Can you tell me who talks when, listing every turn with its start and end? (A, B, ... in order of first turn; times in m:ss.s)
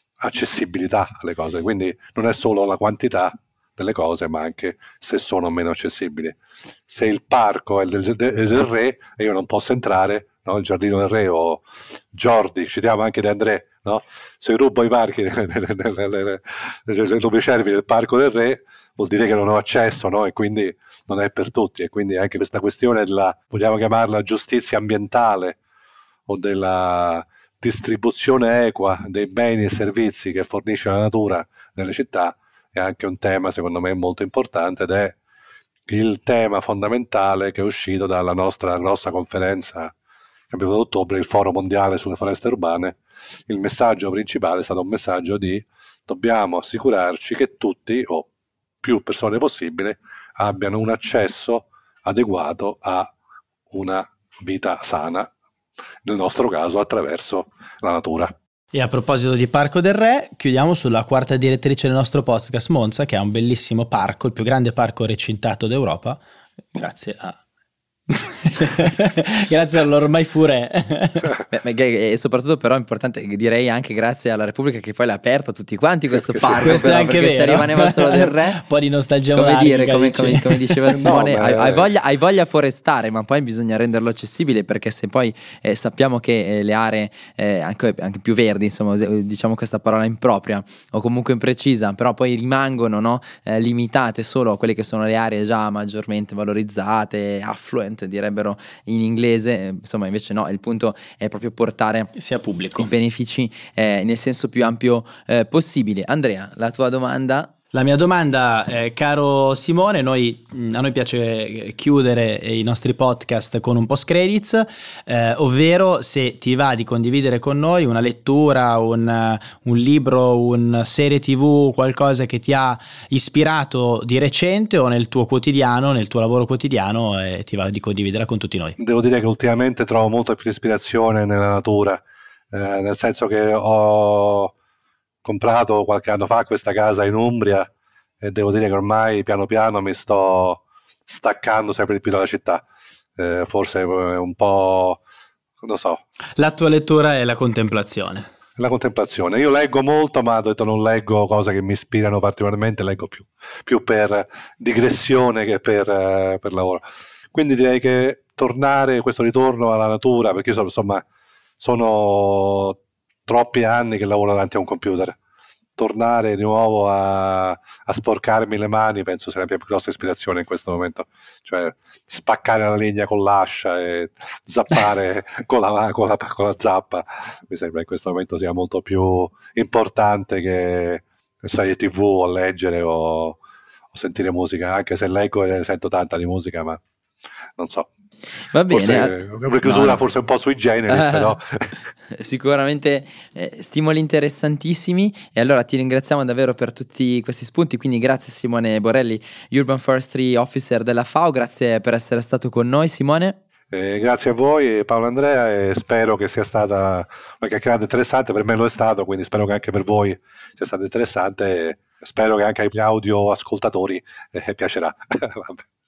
0:00.2-0:25.6 A
0:26.3-0:35.2 A
0:35.9-0:39.9 A
0:40.5-0:48.3 A
0:48.8-0:53.1 A
0:53.7-0:55.3 A
0:56.0-0:58.3 A
0:58.7-1:06.2 B
1:06.7-1:07.4 B
1:08.1-1:11.3 B
1:11.5-1:18.6 C
1:16.1-1:16.9 A
1:16.6-1:21.0 B
1:19.3-1:42.1 C
1:20.9-1:21.9 A
1:42.2-1:42.9 B
1:42.8-1:47.5 C
1:47.7-2:08.8 B
2:08.8-2:14.5 A
2:15.2-2:17.7 A
2:18.2-2:22.6 A
2:23.2-2:25.0 A
2:25.6-2:26.0 A
2:26.4-2:28.3 B
2:28.6-2:41.0 A
2:41.6-2:45.2 A
2:45.8-3:03.4 A
3:03.9-3:06.8 A
3:07.6-3:07.9 A
3:08.5-3:10.0 C
3:08.7-3:11.7 A
3:10.9-3:11.4 C
3:12.1-3:23.4 C
3:23.7-3:35.6 A